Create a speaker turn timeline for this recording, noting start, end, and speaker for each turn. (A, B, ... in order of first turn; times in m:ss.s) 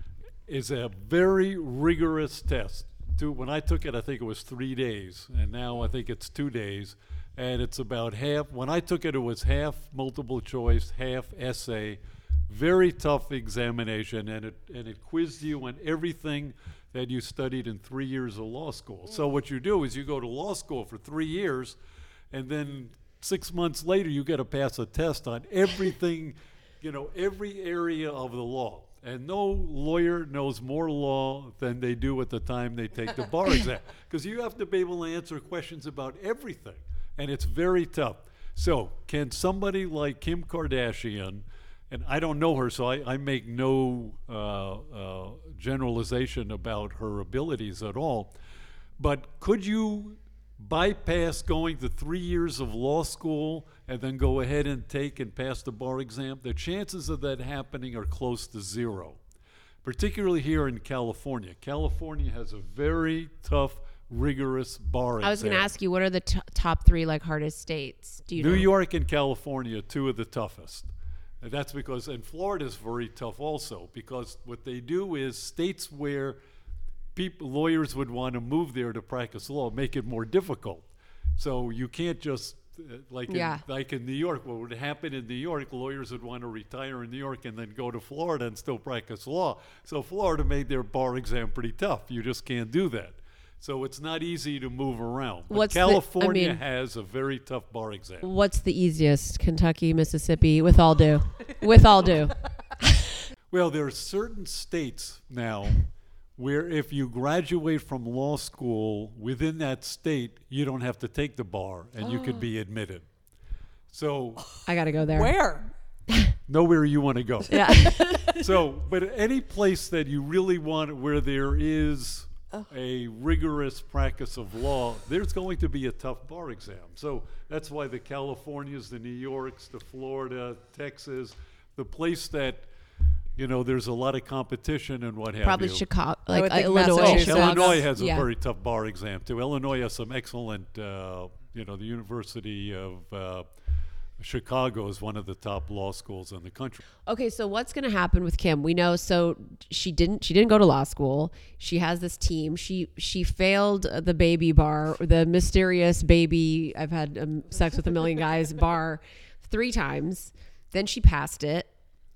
0:00.5-0:21.8 A
0:22.3-0:48.3 A
0:49.0-0:59.2 A
0:59.8-1:05.7 A
1:05.2-1:08.7 B
1:08.4-1:16.4 A
1:17.1-1:20.8 A
1:21.4-1:38.3 A
1:23.3-1:23.6 B
1:35.5-1:36.6 B
1:38.2-1:42.4 B
1:43.5-1:53.1 A
1:52.0-1:52.4 B
1:53.9-1:54.4 A
1:54.6-1:55.4 B
1:55.1-1:55.7 C
1:56.5-1:57.7 A
1:57.5-1:58.4 B
1:58.4-2:12.6 A
2:13.4-2:15.8 A
2:15.4-2:18.3 B
2:16.3-2:17.8 C
2:16.8-2:23.5 A
2:24.2-2:26.8 A
2:27.1-2:41.7 B